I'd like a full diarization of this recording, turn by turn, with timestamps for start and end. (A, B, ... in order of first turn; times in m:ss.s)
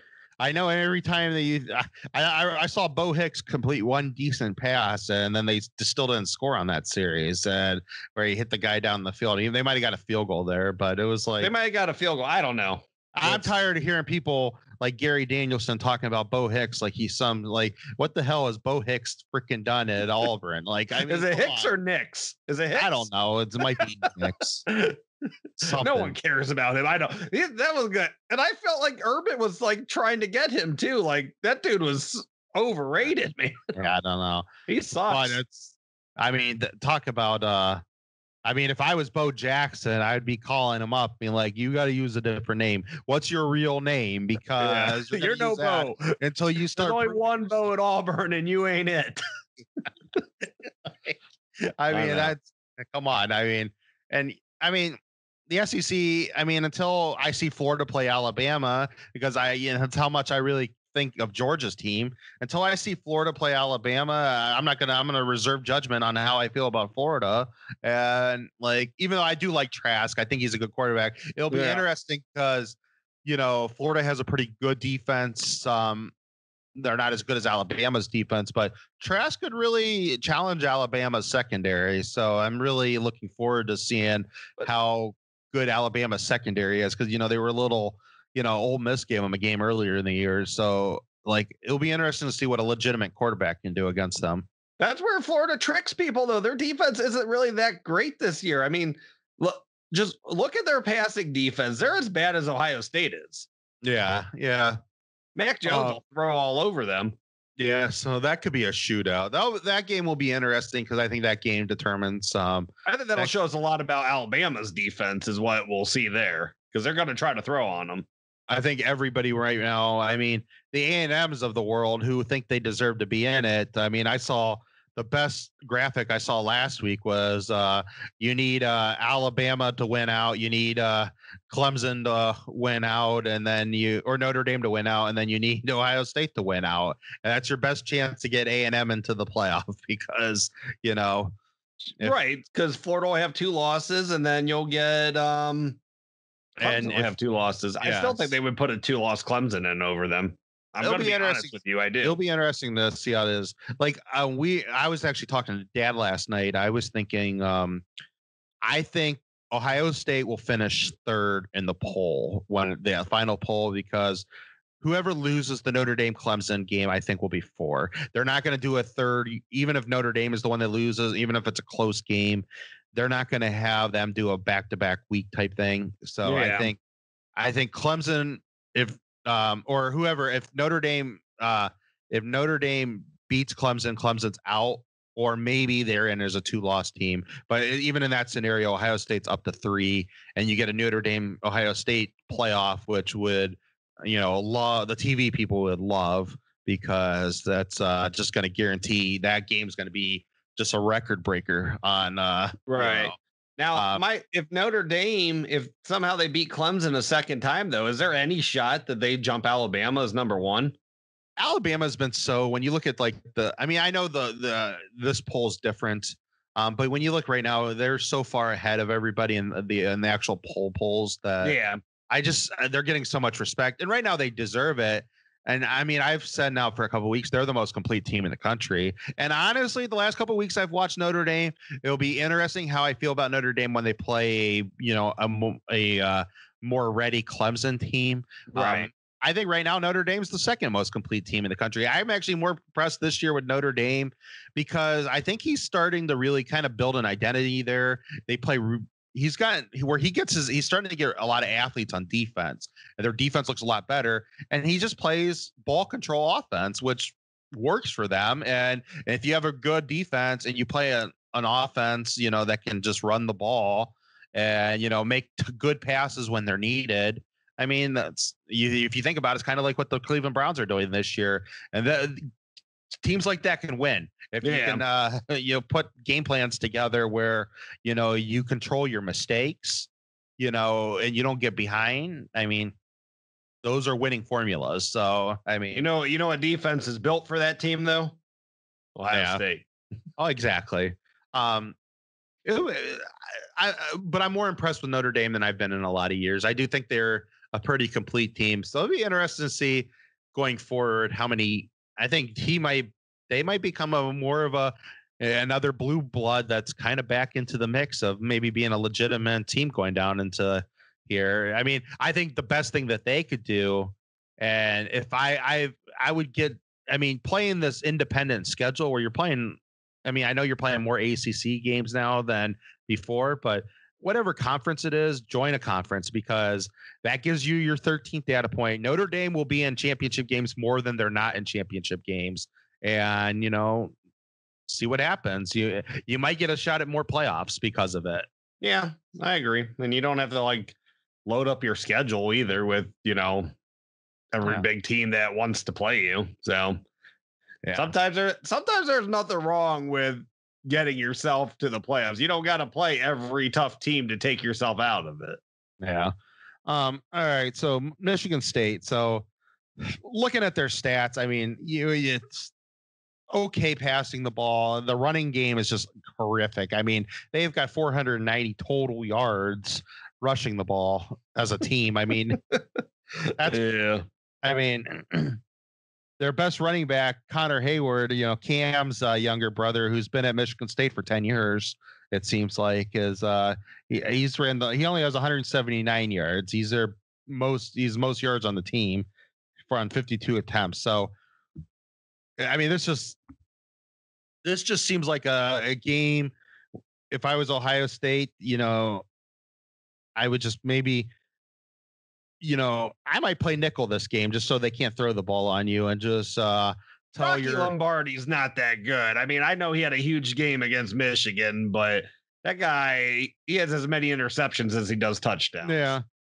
0:00.4-0:11.5 A
0:11.4-0:13.5 B
0:13.2-0:21.7 A
0:21.0-0:23.1 B
0:22.8-0:24.6 A
0:24.7-0:25.0 B
0:25.6-0:26.2 A
0:25.6-0:33.8 B
0:33.8-0:34.5 A
0:34.7-0:35.4 B
0:35.1-0:37.8 A
0:38.4-0:47.2 A
0:44.6-0:46.2 B
0:46.8-0:49.2 B
0:51.8-1:16.1 A
0:51.9-0:52.3 B
1:11.5-1:11.8 B
1:16.8-1:34.5 A
1:34.8-1:43.5 B
1:43.8-1:44.8 A
1:45.4-1:47.2 B
1:45.6-1:46.0 A
1:47.6-1:53.3 A
1:52.9-1:58.1 B
1:58.5-2:21.3 A
2:22.0-2:25.8 B
2:26.6-2:32.2 B
2:26.6-2:27.1 A
2:27.8-2:28.3 A
2:30.8-2:37.9 A
2:38.6-2:44.3 A
2:44.8-2:56.8 A
2:56.2-2:56.7 B
2:57.4-3:23.1 A
3:22.7-3:30.8 B
3:23.8-3:24.0 A
3:31.4-3:41.6 A
3:41.4-3:41.8 B
3:42.1-4:32.3 A
3:58.5-3:58.9 B
4:33.0-4:42.8 A
4:34.4-4:34.8 B
4:43.6-4:45.9 A
4:45.7-4:48.2 B
4:49.0-4:49.7 B
4:49.1-4:49.4 A
4:50.2-4:51.8 A
4:52.4-5:33.9 A
5:34.7-5:38.3 A
5:38.6-5:43.5 B
5:44.3-5:46.8 B
5:47.6-5:47.9 A
5:47.8-5:55.4 B
5:55.8-5:56.1 A
5:56.7-5:59.3 A
5:59.8-6:02.5 A
6:03.3-6:12.4 A
6:13.3-6:14.1 B
6:13.4-6:13.6 A
6:14.4-6:15.4 A
6:16.2-6:29.1 A
6:29.7-6:31.1 A
6:32.4-6:33.2 A
6:34.4-6:36.3 A
6:37.1-6:39.0 A
6:40.2-6:41.1 A
6:42.4-6:47.7 A
6:47.2-6:55.9 B
6:55.6-6:56.0 A